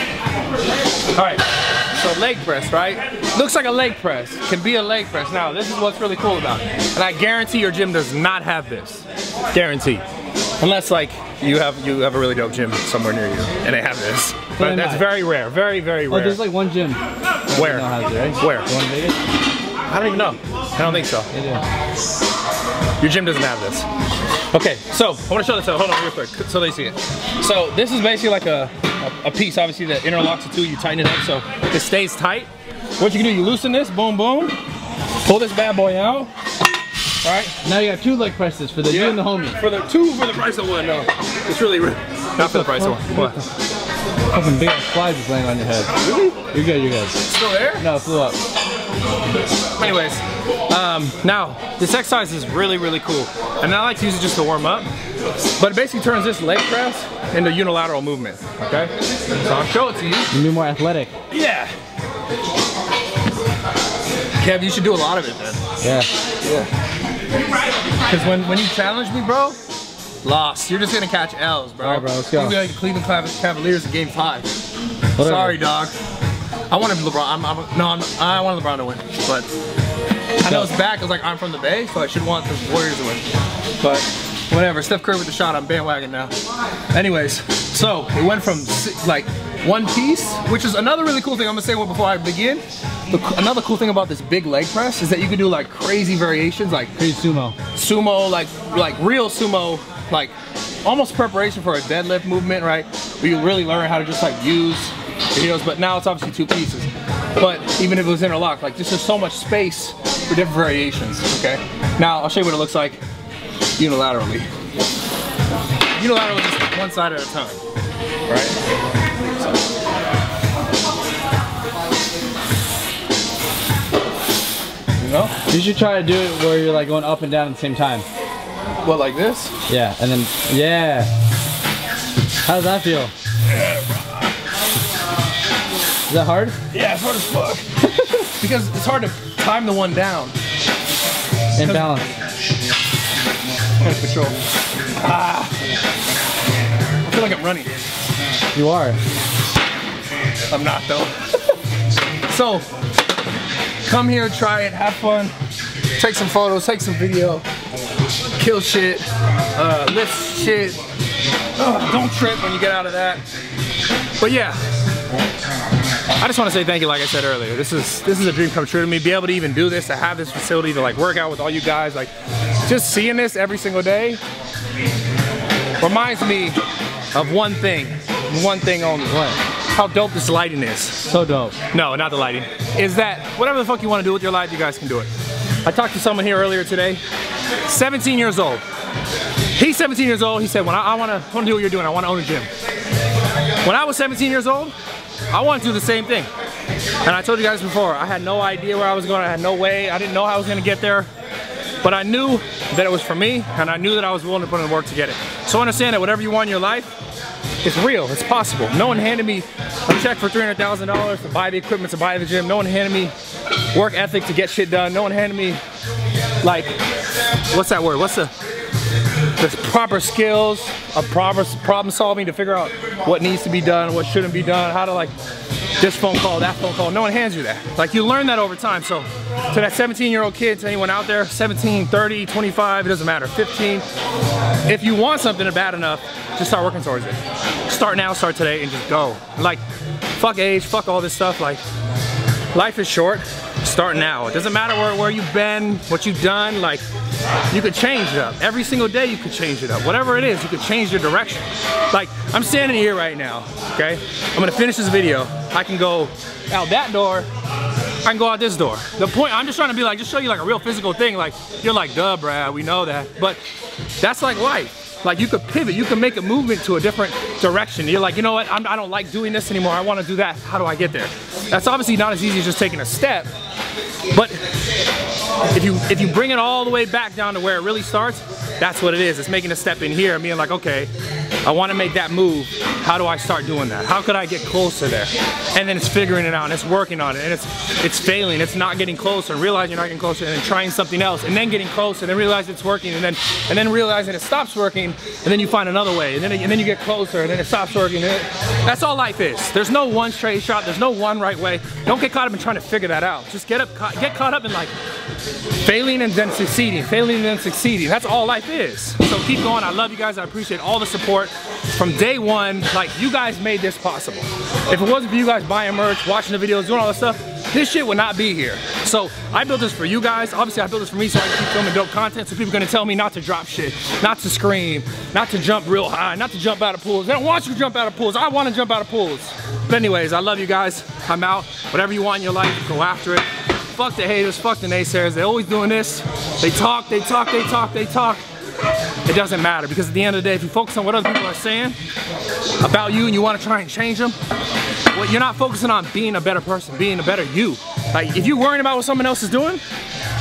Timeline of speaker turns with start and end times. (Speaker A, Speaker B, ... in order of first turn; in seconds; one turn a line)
Speaker A: 1.1-10.0
Speaker A: 10.6-16.5
Speaker B: 14.6-15.1
Speaker B: 16.1-19.2
Speaker A: 17.5-18.7
Speaker A: 19.9-21.3
Speaker B: 21.3-21.6
Speaker A: 23.0-23.9
Speaker A: 24.5-34.6
Speaker A: 35.2-36.3
Speaker A: 37.2-37.5
Speaker B: 37.6-39.6
Speaker A: 38.9-43.4
Speaker B: 42.4-43.4
Speaker B: 44.3-45.9
Speaker A: 46.0-46.4
Speaker B: 46.5-48.4
Speaker A: 47.3-47.8
Speaker A: 49.8-54.9
Speaker A: 55.6-60.3
Speaker B: 60.3-61.1
Speaker A: 61.3-61.8
Speaker A: 64.4-65.6
Speaker B: 65.8-66.1
Speaker A: 66.4-66.7
Speaker A: 68.0-69.6
Speaker A: 70.2-74.5
Speaker B: 71.8-72.6
Speaker B: 75.2-75.6
Speaker A: 75.2-75.9
Speaker A: 76.7-79.5
Speaker A: 80.4-83.3
Speaker B: 80.5-80.7
Speaker A: 83.8-86.3
Speaker A: 86.9-96.9
Speaker B: 97.0-97.6
Speaker A: 97.7-113.0
Speaker A: 113.8-114.5
Speaker A: 116.0-117.6
Speaker A: 118.3-118.5
Speaker A: 125.0-125.3
Speaker B: 125.5-128.1
Speaker A: 128.8-129.5
Speaker B: 129.7-131.1
Speaker B: 132.4-133.1
Speaker A: 133.5-134.2
Speaker B: 136.1-136.6
Speaker A: 136.7-137.7
Speaker A: 138.4-140.4
Speaker B: 141.6-142.1
Speaker A: 141.6-141.9
Speaker A: 143.8-144.4
Speaker A: 145.0-145.6
Speaker A: 147.1-147.7
Speaker B: 148.5-149.0
Speaker A: 150.5-151.3
Speaker A: 152.3-152.7
Speaker A: 153.9-155.3
Speaker A: 156.0-157.4
Speaker A: 158.4-160.8
Speaker A: 161.6-163.2
Speaker A: 164.2-164.6
Speaker A: 166.2-172.1
Speaker A: 172.7-174.2
Speaker A: 175.8-176.6
Speaker A: 177.1-181.1
Speaker B: 179.1-179.4
Speaker B: 181.1-181.6
Speaker A: 181.7-185.1
Speaker A: 185.7-187.0
Speaker A: 187.7-188.6
Speaker A: 189.6-192.5
Speaker A: 193.6-194.8
Speaker A: 195.3-196.3
Speaker A: 197.0-201.1
Speaker A: 201.8-206.9
Speaker A: 207.6-213.1
Speaker A: 213.7-215.6
Speaker A: 216.4-216.8
Speaker A: 217.5-218.3
Speaker A: 219.4-225.1
Speaker A: 225.8-233.8
Speaker A: 234.7-239.6
Speaker A: 240.2-241.6
Speaker A: 242.5-246.8
Speaker A: 247.5-257.3
Speaker A: 258.0-263.4
Speaker A: 264.0-273.3
Speaker A: 274.1-274.4
Speaker A: 275.5-280.9
Speaker A: 281.4-304.7
Speaker A: 305.6-338.2
Speaker A: 339.1-341.8
Speaker A: 342.6-344.2
Speaker A: 344.9-349.6